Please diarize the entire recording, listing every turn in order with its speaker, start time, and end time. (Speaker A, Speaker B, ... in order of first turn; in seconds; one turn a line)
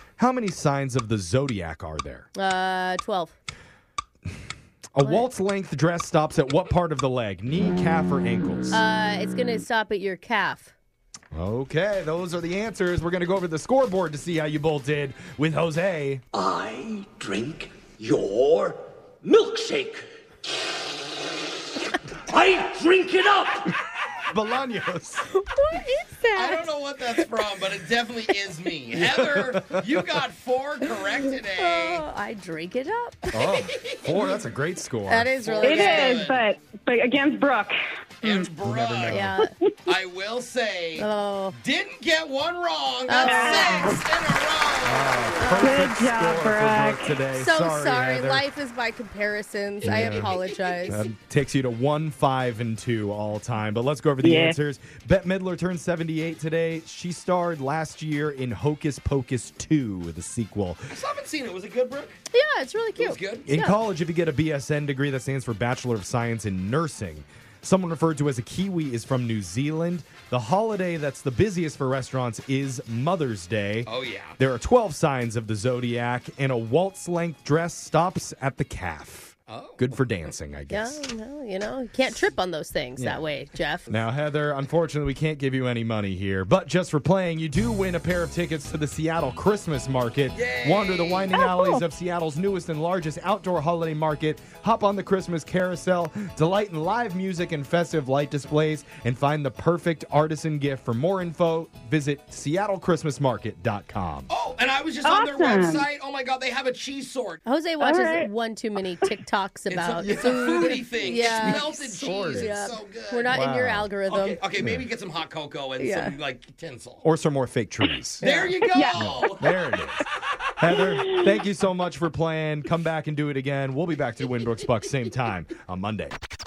Speaker A: 0.2-2.3
Speaker B: 2.3-3.4
Speaker A: 4.9-8.8
Speaker B: 5.0-5.2
Speaker B: 8.7-10.7
Speaker A: 11.3-16.2
Speaker C: 16.3-20.0
Speaker C: 22.3-23.7
Speaker A: 24.3-25.3
Speaker B: 25.3-26.7
Speaker D: 26.3-32.0
Speaker B: 31.5-33.5
Speaker A: 33.3-35.3
Speaker D: 33.9-34.2
Speaker B: 35.1-36.3
Speaker D: 35.4-36.4
Speaker E: 35.6-37.7
Speaker D: 38.2-39.2
Speaker A: 38.6-39.3
Speaker B: 39.1-39.5
Speaker D: 39.9-45.4
Speaker B: 41.0-41.5
Speaker B: 43.1-44.0
Speaker E: 43.2-44.0
Speaker A: 44.8-48.4
Speaker B: 45.4-45.8
Speaker E: 45.6-47.1
Speaker B: 47.3-51.0
Speaker A: 49.8-50.3
Speaker A: 50.9-60.8
Speaker E: 54.2-54.6
Speaker D: 60.9-62.2
Speaker B: 62.3-63.8
Speaker D: 63.0-63.5
Speaker A: 63.4-81.0
Speaker D: 73.8-74.4
Speaker D: 79.5-80.0
Speaker B: 80.7-84.0
Speaker A: 83.0-83.2
Speaker A: 83.9-104.3
Speaker D: 90.3-91.3
Speaker E: 91.3-91.8
Speaker D: 104.3-107.4
Speaker E: 105.0-105.8
Speaker B: 107.5-114.4
Speaker E: 107.8-108.3
Speaker D: 109.7-113.4
Speaker A: 110.0-112.7
Speaker A: 113.3-113.9
Speaker D: 114.0-117.0
Speaker A: 114.6-114.8
Speaker B: 115.8-116.2
Speaker A: 117.0-118.2
Speaker B: 118.2-118.6
Speaker D: 118.2-119.5
Speaker E: 118.6-119.3
Speaker A: 118.9-120.0
Speaker A: 120.6-126.2